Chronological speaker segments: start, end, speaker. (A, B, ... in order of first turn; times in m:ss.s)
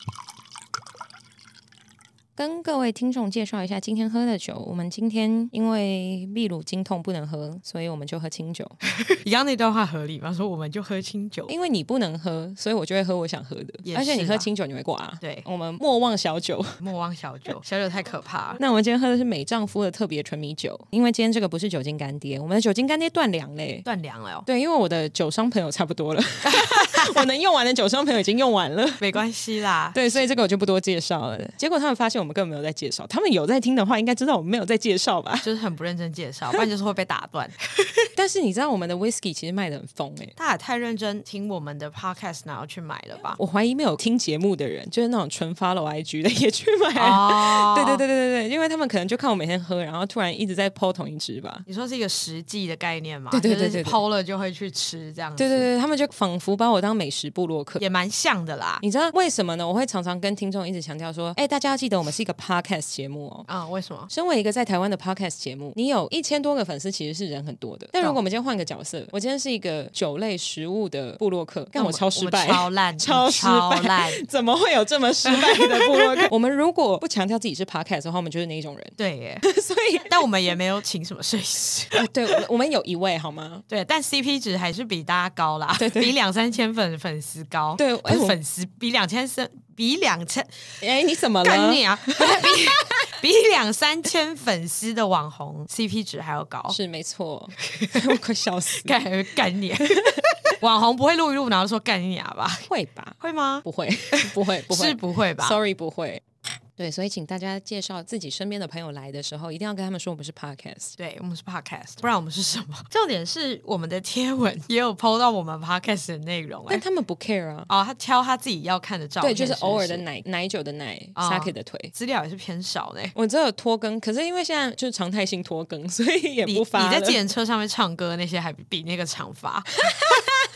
0:02.4-0:08.7 A
0:08.8-0:11.5 B
0:11.5-0:16.8 A
0:13.8-0:14.5 B
0:16.8-0:18.6 B
0:18.6-0:23.8 A
0:23.8-0:24.4 B
0:24.4-0:29.2 A
0:26.4-0:27.2 B
0:29.0-0:30.0 B
0:29.9-0:35.5 A
0:35.4-0:38.1 B
0:38.1-0:40.3 A
0:40.4-0:43.4 B
0:43.4-0:51.6 A
0:47.0-0:48.0 B
0:51.7-0:55.7 B
0:53.3-0:54.0 A
0:55.4-0:57.8 A
0:57.8-0:58.8 B
0:58.8-1:03.5 A
1:03.5-1:04.1 B
1:04.1-1:20.2 A
1:11.7-1:14.2 B
1:15.3-1:16.3 B
1:19.0-1:19.4 B
1:20.0-1:22.0 B
1:21.9-1:23.6 A
1:23.7-1:30.5 B
1:25.8-1:26.1 A
1:27.8-1:28.4 A
1:30.8-1:32.7 A
1:31.4-1:36.8 B
1:36.7-1:39.0 A
1:37.6-1:38.2 B
1:38.8-1:42.7 B
1:42.7-1:46.2 A
1:43.2-1:45.6 B
1:46.8-1:50.9 A
1:51.0-1:56.8 B
1:56.7-1:57.7 A
1:57.7-2:00.0 B
1:59.2-2:01.9 A
2:01.2-2:03.1 B
2:03.1-2:07.2 A
2:06.4-2:10.2 B
2:09.9-2:10.2 A